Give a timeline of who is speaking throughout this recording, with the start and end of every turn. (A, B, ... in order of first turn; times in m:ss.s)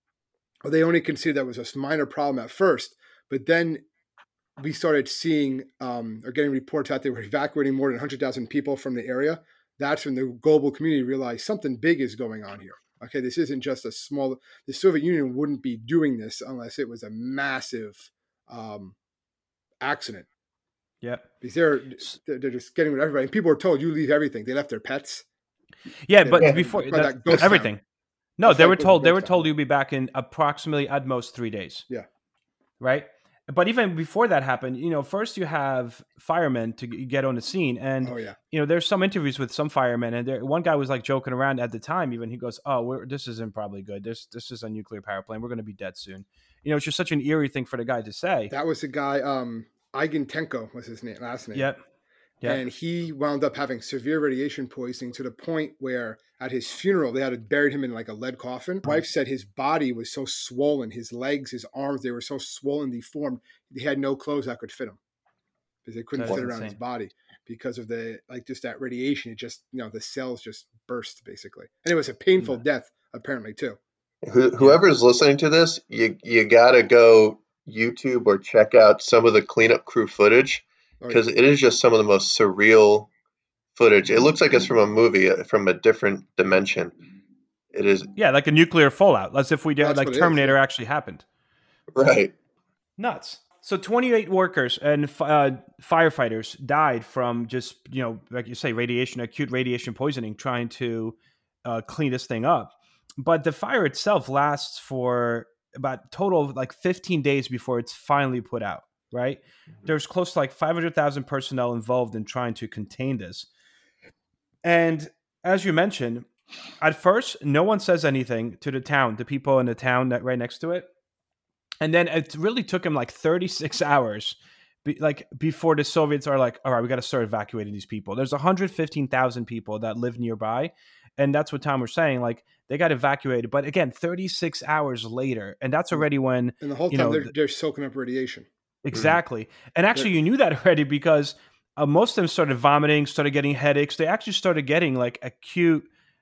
0:00.6-0:03.8 A
0:04.6-0:19.0 A
0:19.8-0:20.3 A
0:21.0-0:21.3 B
0:21.4-0:25.2 A
0:26.1-0:27.8 B
0:26.2-0:27.7 A
0:26.4-0:27.5 C
0:28.4-0:31.9 B
0:28.4-0:29.5 A
0:32.8-0:48.5 B
0:38.0-0:38.4 A
0:48.5-0:51.7 A
0:51.5-0:51.8 B
0:52.4-1:05.0 A
1:05.8-1:13.8 A
1:06.2-1:06.8 B
1:14.2-1:23.1 C
1:23.8-1:27.0 C
1:27.7-1:28.2 C
1:28.2-1:31.2 B
1:29.8-1:30.6 A
1:32.0-1:32.3 C
1:33.0-1:53.5 B
1:54.6-1:56.3 B
1:56.8-2:00.9 B
2:01.8-2:17.3 B
2:16.6-2:18.5 A
2:18.8-2:25.9 B